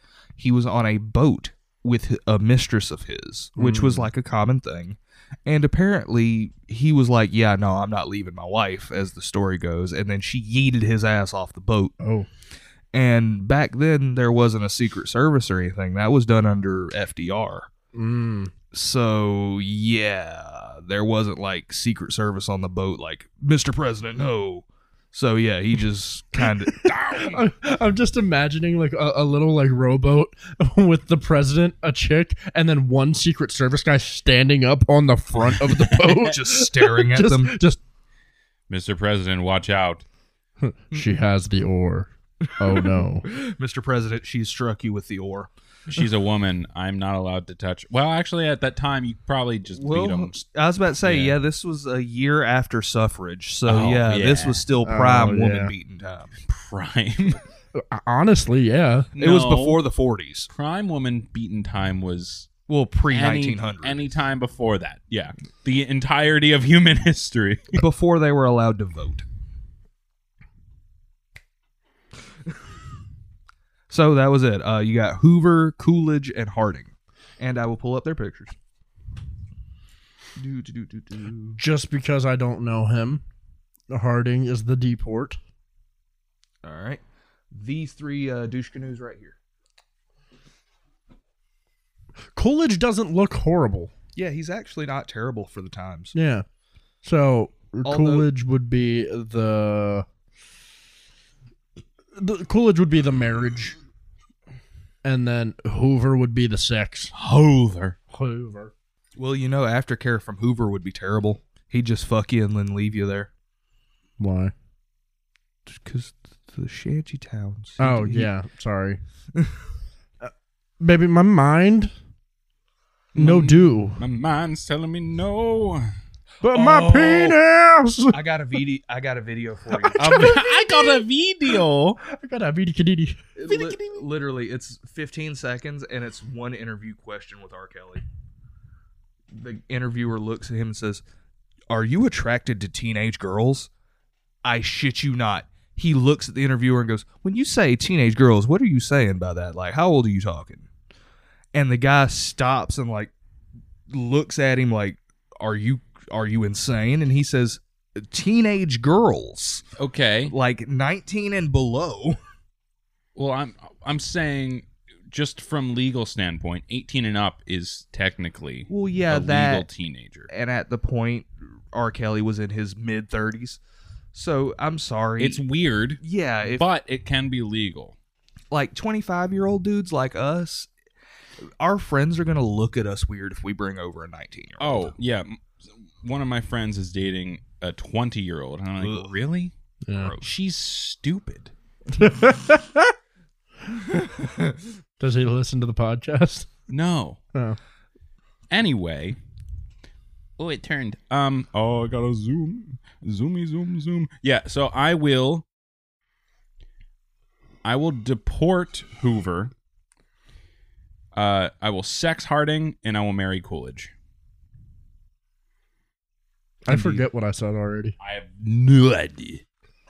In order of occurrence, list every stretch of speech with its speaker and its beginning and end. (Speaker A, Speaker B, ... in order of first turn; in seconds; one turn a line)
Speaker A: 0.4-11.9
Speaker B: 3.6-4.1
Speaker B: 12.0-12.3
Speaker A: 12.9-17.7
Speaker B: 17.9-18.5
Speaker A: 18.7-26.9
Speaker C: 26.8-27.4
Speaker B: 27.3-37.8
Speaker A: 36.1-37.5
Speaker C: 38.7-40.0
Speaker B: 40.6-43.3
Speaker A: 42.6-46.0
Speaker C: 45.9-50.4
Speaker A: 49.7-56.3
Speaker C: 51.0-51.4
Speaker C: 53.6-54.6
Speaker B: 54.8-55.7
Speaker C: 56.5-57.4
Speaker B: 57.7-59.1
Speaker C: 59.1-59.8
Speaker A: 59.2-60.5
Speaker C: 60.5-62.5
Speaker A: 62.7-64.0
Speaker C: 63.1-67.8
Speaker A: 67.8-69.2
Speaker A: 73.9-78.5
Speaker A: 80.3-81.6
Speaker B: 81.6-83.2
Speaker B: 83.9-85.4
Speaker A: 86.6-89.4
Speaker B: 92.3-93.9
Speaker A: 94.2-96.1
Speaker B: 96.1-96.4
Speaker B: 97.0-100.0
Speaker A: 97.8-98.3
Speaker B: 102.2-103.8
Speaker B: 105.0-107.1
Speaker C: 107.1-108.0
Speaker B: 108.1-108.7
Speaker A: 109.2-113.3
Speaker B: 114.2-114.5
Speaker A: 115.7-118.3
Speaker B: 117.8-119.0
Speaker B: 120.2-121.9
Speaker C: 123.1-125.9
Speaker B: 123.2-124.0
Speaker B: 126.4-128.2
Speaker A: 126.5-127.3
Speaker A: 128.1-130.4
Speaker B: 129.7-133.2
Speaker C: 129.9-132.0
Speaker A: 133.3-138.0
Speaker C: 133.4-134.1
Speaker A: 139.3-141.0
Speaker A: 141.7-143.7
Speaker A: 144.4-150.7
Speaker A: 151.5-153.1
Speaker A: 153.9-159.6
Speaker C: 159.8-160.3
Speaker A: 160.3-162.2
Speaker C: 163.2-170.3
Speaker A: 168.7-169.7
Speaker A: 170.3-173.6
Speaker A: 174.1-175.4
Speaker C: 175.2-177.9
Speaker A: 176.0-176.7
Speaker A: 178.5-180.7
Speaker A: 181.6-184.9
Speaker C: 184.6-185.5
Speaker C: 186.0-189.5
Speaker A: 188.8-189.1
Speaker B: 189.8-190.1
Speaker A: 189.9-190.3
Speaker C: 190.2-191.5
Speaker B: 191.9-192.9
Speaker A: 193.8-194.6
Speaker B: 195.0-196.5
Speaker C: 196.7-197.2
Speaker C: 198.5-199.2
Speaker C: 200.4-205.4
Speaker C: 207.6-209.5
Speaker C: 211.1-213.9
Speaker B: 216.6-217.9
Speaker A: 216.7-217.1
Speaker C: 218.0-219.4